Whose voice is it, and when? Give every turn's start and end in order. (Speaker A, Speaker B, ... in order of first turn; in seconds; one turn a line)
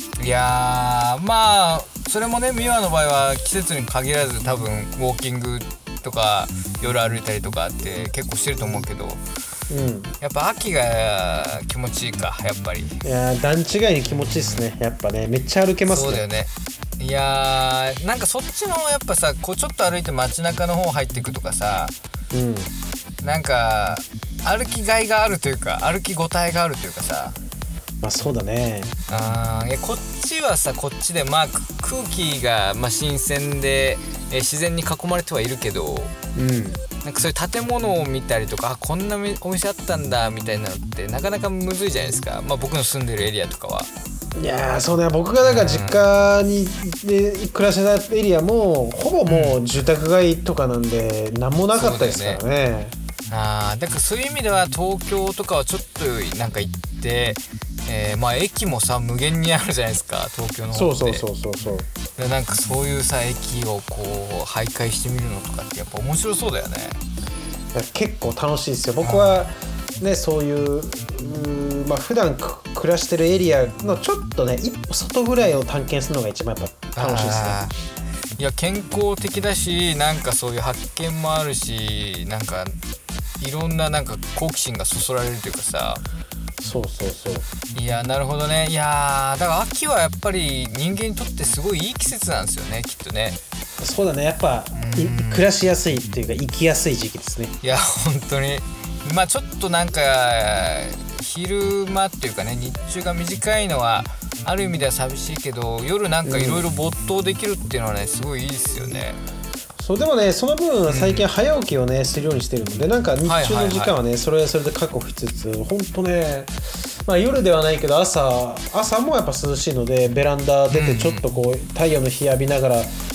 Speaker A: 0.2-9.2
Speaker B: 9.7-10.1
Speaker A: 10.2-13.0
Speaker B: 13.0-16.2
Speaker A: 14.1-14.7
Speaker A: 15.9-21.9
Speaker B: 22.3-22.7
Speaker A: 23.2-27.4
Speaker B: 28.0-28.9
Speaker A: 29.1-36.1
Speaker B: 36.4-36.8
Speaker A: 37.0-43.9
Speaker B: 44.4-53.0
Speaker A: 45.4-46.0
Speaker A: 49.3-49.6
Speaker A: 51.7-52.4
Speaker A: 53.3-61.2
Speaker B: 60.7-61.9
Speaker A: 62.2-67.0
Speaker B: 67.7-77.6
Speaker A: 69.0-69.4
Speaker A: 77.0-77.7
Speaker A: 78.4-82.8
Speaker A: 83.4-86.0
Speaker B: 86.6-87.5
Speaker A: 87.7-93.4
Speaker B: 93.8-97.5
Speaker A: 94.7-95.5
Speaker A: 97.6-109.2
Speaker B: 106.2-106.6
Speaker B: 109.8-116.5
Speaker A: 110.9-111.3
Speaker A: 113.2-113.9
Speaker B: 117.0-123.0
Speaker A: 120.7-121.3